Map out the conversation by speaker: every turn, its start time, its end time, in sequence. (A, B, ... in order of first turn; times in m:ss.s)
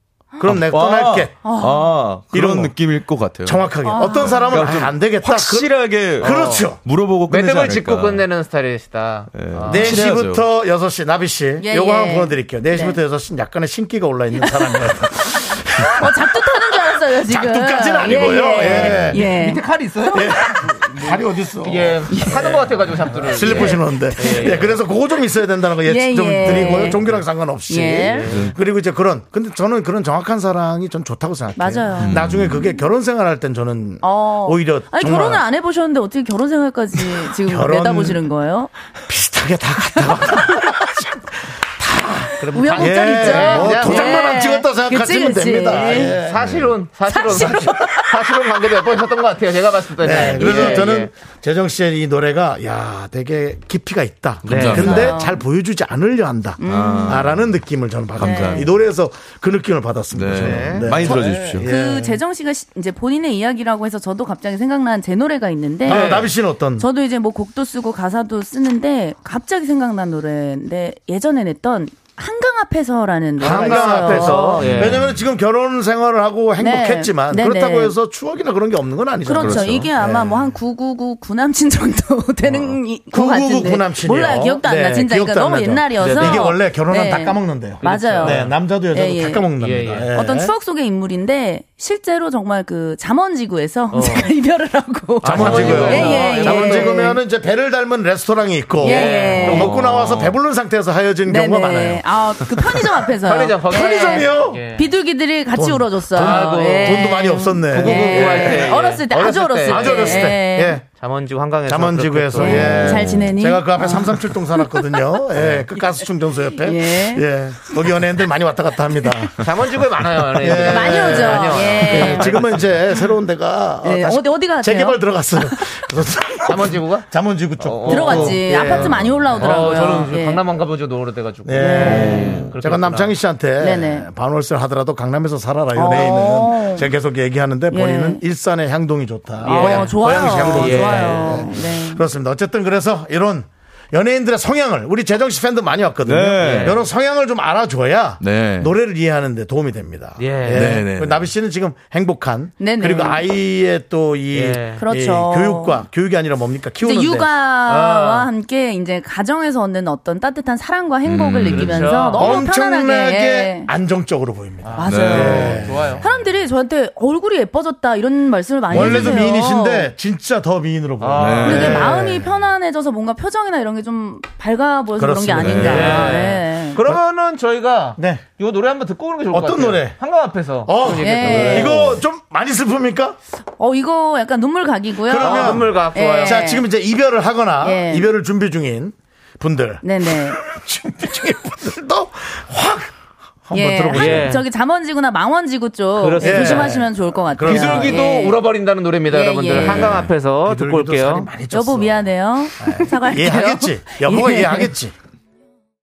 0:00.4-0:01.3 A
0:00.4-0:08.2 B
0:01.4-0:02.1 C
0:02.3-0:02.8 A
0:03.4-0:06.8 A
0:03.8-0:04.7 C
0:06.2-0:06.7 D
0:07.3-0:10.1 D
0:09.3-0:10.4 B
0:09.6-0:19.2 A
0:11.6-0:13.0 C
0:14.4-0:14.9 C
0:15.9-0:19.7 C
0:18.7-0:24.8 D
0:20.1-0:22.5 A
0:22.1-0:22.7 C
0:23.2-0:35.4 A
0:23.4-0:24.6 C
0:25.8-0:27.1 C
0:26.6-0:27.2 D
0:27.7-0:28.4 C
0:28.1-0:28.5 D
0:28.3-0:28.5 B
0:31.6-0:32.8 C
0:32.0-0:32.7 B
0:34.0-0:38.7 C
0:37.3-0:38.2 A
0:39.1-0:46.4 A
0:42.4-0:44.2 D
0:42.5-0:46.2 C
0:45.8-0:51.1 D
0:46.4-0:46.7 B
0:47.1-0:48.0 C
0:47.4-0:47.8 A
0:50.0-1:02.2 A
0:50.4-0:50.9 C
0:54.4-0:55.1 D
0:54.4-0:55.2 B
0:54.7-0:55.4 C
0:56.6-0:57.2 C
0:56.6-0:57.6 B
0:58.2-0:58.7 B
0:58.2-0:58.7 C
1:00.1-1:01.7 B
1:00.4-1:01.0 D
1:01.6-1:06.2 C
1:05.8-1:06.3 D
1:05.8-1:06.9 A
1:06.8-1:14.9 C
1:13.4-1:15.0 D
1:13.4-1:20.5 A
1:14.6-1:15.1 B
1:16.6-1:17.9 C
1:19.2-1:29.5 C
1:19.3-1:19.9 B
1:23.1-1:30.5 A
1:26.0-1:26.5 D
1:27.8-1:28.5 D
1:29.6-1:30.1 D
1:30.1-1:37.2 C
1:33.9-1:34.3 D
1:35.2-1:37.0 D
1:35.2-1:42.9 A
1:35.5-1:35.8 B
1:38.8-1:39.8 C
1:38.8-1:40.0 D
1:39.5-1:40.3 B
1:41.2-1:50.8 C
1:43.2-1:44.9 D
1:43.6-1:44.6 A
1:45.5-1:48.9 A
1:46.1-1:47.1 D
1:47.7-1:50.4 D
1:49.7-1:50.8 A
1:50.9-1:52.8 D
1:51.7-1:59.4 A
1:52.4-1:55.2 C
1:52.4-1:53.4 B
1:55.3-1:55.6 D
1:56.5-1:57.2 C
1:59.4-2:02.7 D
2:00.4-2:09.1 A
2:00.5-2:02.4 C
2:03.8-2:05.8 C
2:06.4-2:07.1 D
2:07.6-2:13.2 D
2:07.8-2:10.4 C
2:11.4-2:37.3 A
2:11.6-2:12.5 C
2:11.8-2:12.6 B
2:13.6-2:14.1 C
2:15.7-2:16.9 C
2:17.7-2:18.2 C
2:19.4-2:21.6 D
2:19.4-2:22.0 C
2:26.0-2:26.8 B
2:26.4-2:26.8 D
2:28.2-2:28.7 B
2:30.2-2:30.8 D
2:30.5-2:31.3 B
2:32.6-2:33.2 C
2:34.3-2:34.8 D
2:34.8-2:35.8 C
2:36.8-2:43.7 C
2:37.6-2:38.2 D
2:41.0-2:42.0 B
2:41.4-2:42.4 D
2:42.2-2:46.0 A
2:44.6-2:46.0 D
2:44.8-2:49.9 C
2:44.8-2:45.7 B
2:48.7-2:49.2 B
2:48.7-2:52.3 A
2:51.0-2:51.9 D
2:51.2-2:52.0 B
2:51.4-2:56.8 C
2:55.0-2:56.2 A
2:55.3-2:56.1 B
2:55.6-3:02.0 D
2:58.0-2:58.2 A
2:59.3-3:00.0 A
3:00.6-3:03.2 A
3:00.8-3:01.9 C
3:03.6-3:06.6 C
3:05.0-3:12.9 A
3:05.2-3:06.4 D
3:07.6-3:08.1 C
3:09.8-3:10.4 C
3:13.5-3:14.4 A
3:13.5-3:18.4 C
3:13.9-3:14.4 D
3:16.0-3:16.8 D
3:16.2-3:18.0 A
3:17.4-3:21.3 D
3:19.1-3:20.1 C
3:19.6-3:20.1 B
3:20.4-3:22.0 A
3:21.5-3:24.7 C
3:22.6-3:24.9 A